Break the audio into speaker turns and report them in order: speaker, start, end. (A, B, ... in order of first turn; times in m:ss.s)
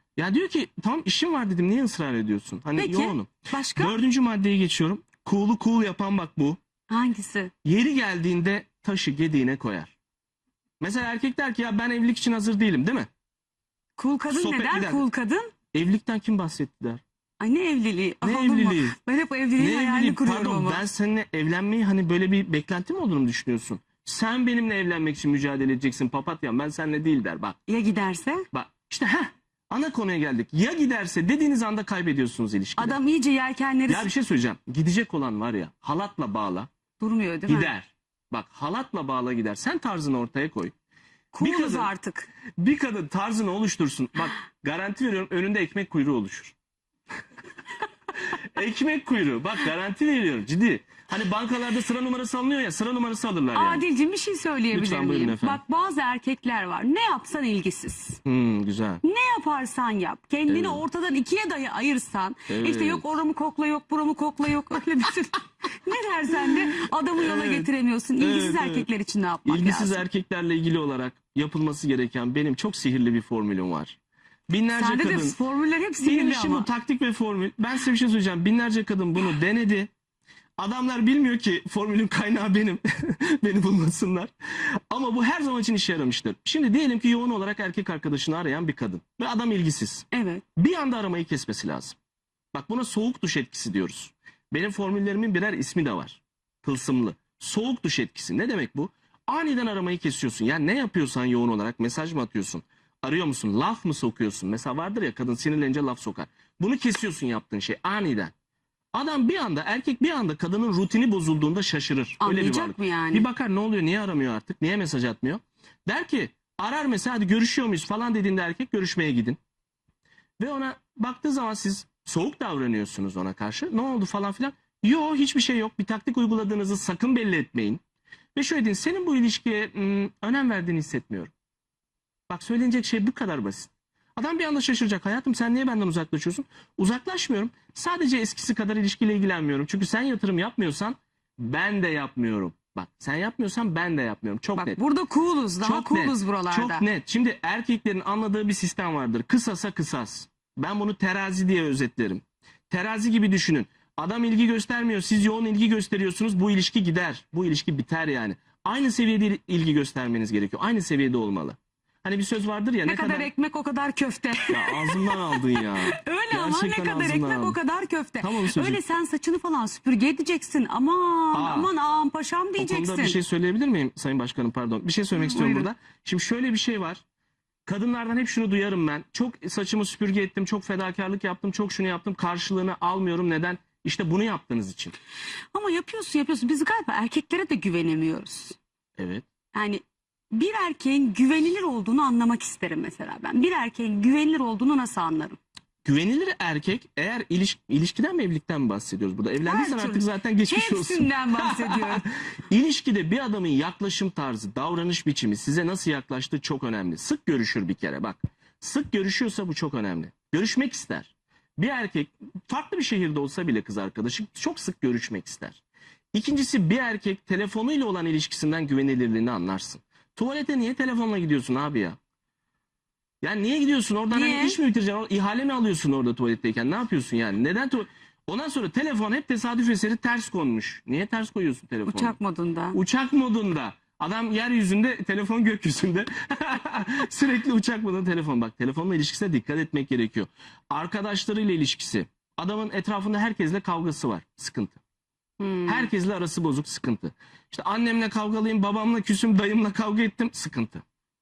0:00.2-0:06.6 A
0:02.8-0:04.0 B
0:06.9-0:07.5 B
0:07.6-0:09.9 A
0:10.8-0:13.1 A
0:14.0-0:15.5 B
0:14.3-0:15.0 A
0:15.7-0:17.0 A
0:17.4-0:20.8 B
0:18.2-0:19.0 A
0:19.6-0:27.6 A
0:27.7-0:28.5 B
0:28.5-0:33.0 A
0:32.8-0:34.1 B
0:33.9-0:36.7 A
0:37.0-0:37.7 B
0:37.5-0:40.7 A
0:41.3-0:42.3 B
0:41.4-0:41.9 A
0:42.6-0:46.6 A
0:48.3-0:53.8 A
0:53.5-0:58.2 B
0:54.7-0:55.6 A
0:58.2-0:59.0 A
0:59.0-1:10.0 B
1:00.5-1:00.8 A
1:02.5-1:03.1 A
1:07.2-1:08.9 A
1:09.5-1:14.0 A
1:14.5-1:15.4 A
1:14.7-1:16.7 B
1:16.0-1:19.9 A
1:20.6-1:32.0 A
1:30.1-1:30.4 B
1:32.5-1:48.3 A
1:48.9-1:59.4 A
1:52.2-1:53.3 B
2:00.4-2:07.8 A
2:08.4-2:11.3 A
2:12.3-2:24.8 A
2:24.6-2:26.8 B
2:25.6-2:43.3 A
2:42.8-2:53.2 B
2:44.4-2:47.6 A
2:48.2-2:48.8 A
2:51.3-2:51.7 A
2:52.6-2:57.0 A
2:55.2-2:55.7 B
2:57.7-3:04.9 A
3:05.5-3:08.6 B
3:09.0-3:09.2 A
3:09.5-3:15.4 B
3:15.8-3:35.6 A
3:19.4-3:22.1 B
3:36.1-3:42.0 A
3:43.2-3:52.2 A
3:44.1-3:44.6 B
3:51.9-3:52.8 B
3:52.7-4:04.8 A
4:05.4-4:05.9 B
4:05.7-4:10.8 A